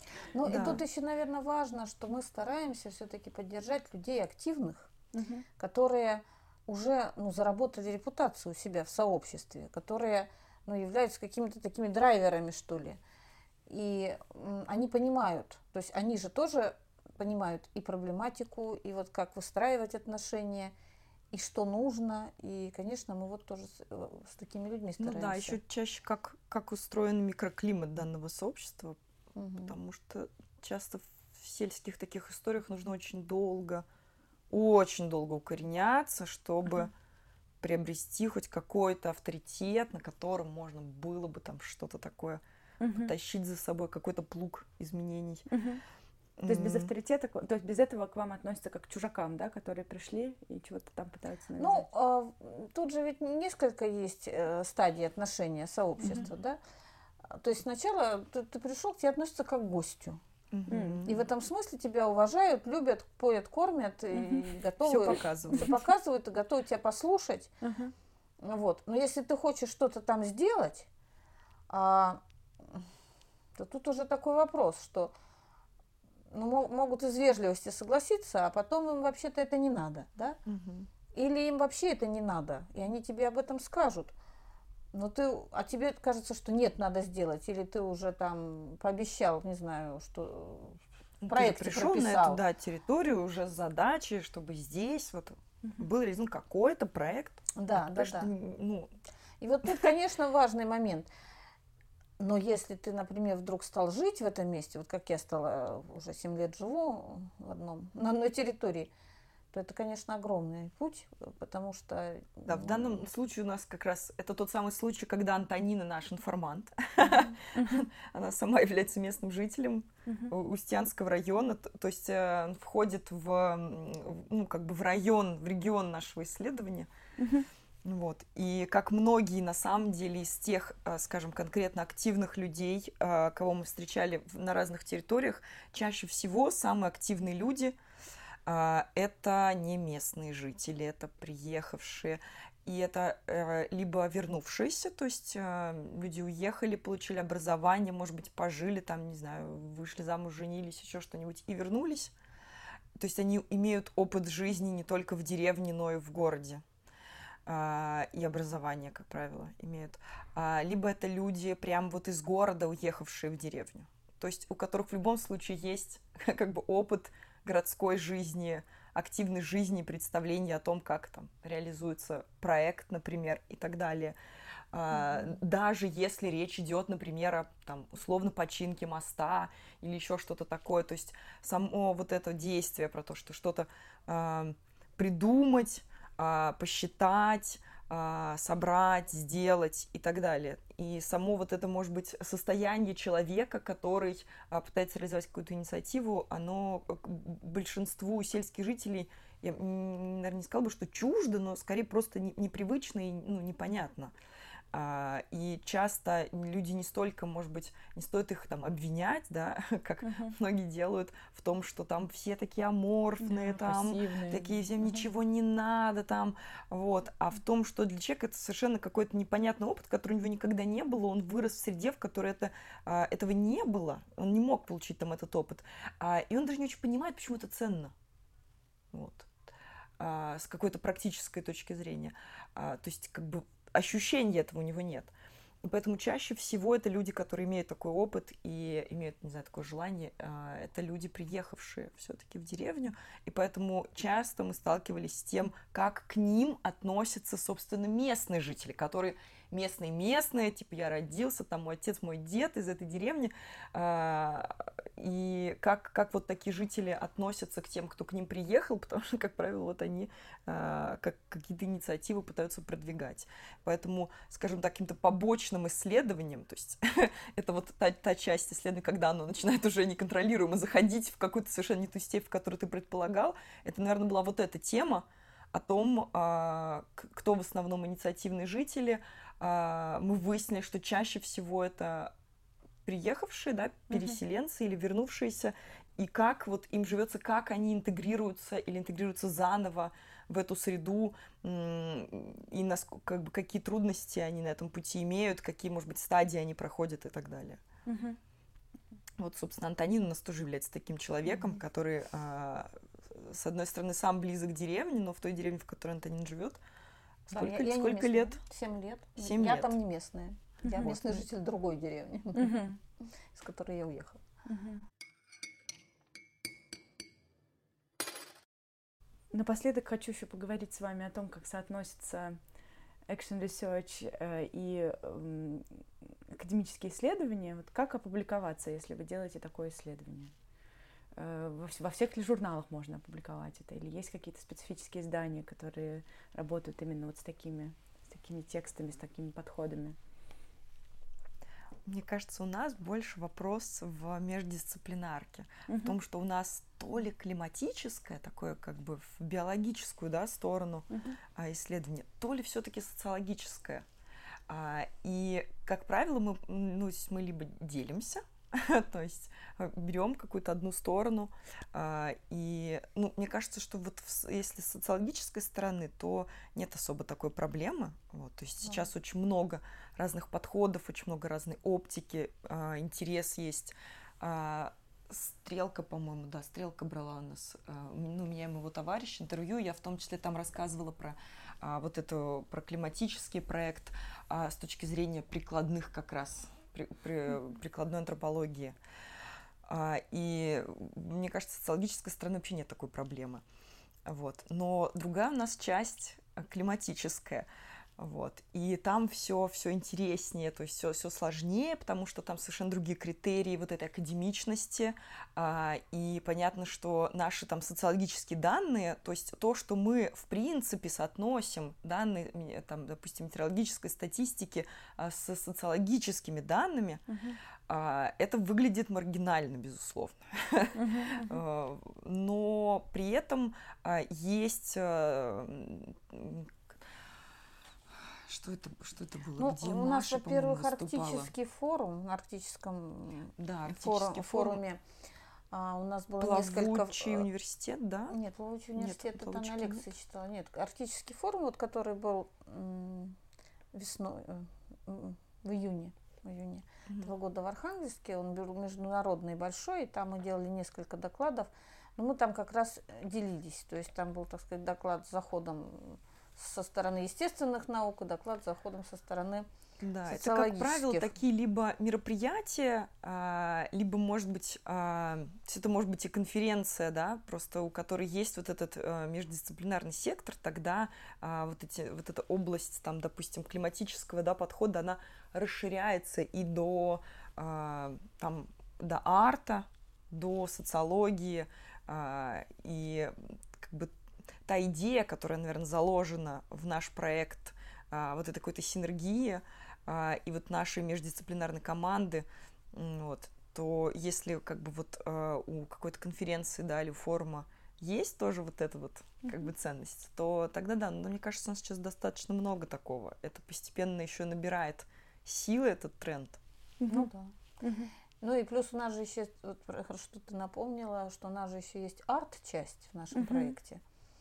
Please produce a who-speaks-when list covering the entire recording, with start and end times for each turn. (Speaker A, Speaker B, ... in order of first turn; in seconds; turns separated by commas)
Speaker A: 0.3-4.9, Speaker B: 0.5-0.8, Speaker C: 5.1-5.5, Speaker A: 5.6-13.0, Speaker A: 13.7-20.7, Speaker A: 21.3-25.6, Speaker B: 25.0-29.0, Speaker A: 29.4-29.8, Speaker B: 29.6-33.9, Speaker B: 34.5-36.9, Speaker B: 37.6-45.5, Speaker C: 42.8-43.1, Speaker C: 45.5-45.8, Speaker B: 46.4-46.9, Speaker C: 46.4-51.9, Speaker A: 51.6-56.6, Speaker A: 57.2-60.2, Speaker B: 60.5-61.3, Speaker C: 60.7-61.0, Speaker A: 61.0-67.5, Speaker C: 64.2-64.5, Speaker B: 64.8-65.8, Speaker C: 67.6-67.9, Speaker A: 68.4-70.9, Speaker A: 71.7-72.8, Speaker A: 73.6-75.1, Speaker A: 76.3-80.4, Speaker B: 80.5-80.9, Speaker A: 81.1-84.1, Speaker A: 84.9-92.4, Speaker B: 91.2-98.9, Speaker A: 97.6-98.3, Speaker A: 99.4-101.1, Speaker A: 102.2-108.9, Speaker A: 109.5-113.1, Speaker B: 112.5-126.9, Speaker C: 117.5-117.9, Speaker C: 120.1-120.3, Speaker C: 127.2-127.5, Speaker B: 127.8-137.8, Speaker B: 138.5-152.1, Speaker B: 153.0-156.6, Speaker B: 157.5-174.2, Speaker B: 174.7-204.2, Speaker B: 204.7-227.9, Speaker C: 210.0-210.3, Speaker C: 213.2-214.9, Speaker B: 228.9-229.3, Speaker B: 230.0-235.1, Speaker B: 235.6-282.1, Speaker B: 282.9-297.6, Speaker C: 297.9-298.2, Speaker B: 299.2-306.6, Speaker B: 307.3-308.4, Speaker A: 307.3-312.7, Speaker B: 309.2-309.8, Speaker C: 310.6-310.9, Speaker C: 312.4-312.8, Speaker A: 313.3-314.2, Speaker C: 314.5-314.8, Speaker C: 319.3-322.4, Speaker C: 323.1-325.7, Speaker C: 326.3-330.3, Speaker C: 331.2-340.0, Speaker B: 341.9-353.9, Speaker C: 345.7-346.0, Speaker C: 350.9-351.2, Speaker B: 354.5-388.8, Speaker B: 389.6-393.4, Speaker B: 394.1-417.1, Speaker C: 417.1-417.4, Speaker B: 417.7-426.6, Speaker C: 420.8-421.4, Speaker B: 428.0-431.3, Speaker A: 429.4-434.8, Speaker B: 433.4-434.6, Speaker A: 435.5-437.3, Speaker B: 436.2-438.2, Speaker A: 438.1-443.2, Speaker B: 438.8-439.8, Speaker A: 443.7-459.5, Speaker B: 459.8-483.9, Speaker A: 460.1-461.1, Speaker B: 484.4-506.4, Speaker C: 506.8-507.1, Speaker A: 506.9-507.3, Speaker C: 507.6-507.9, Speaker A: 508.2-513.8, Speaker C: 513.1-513.5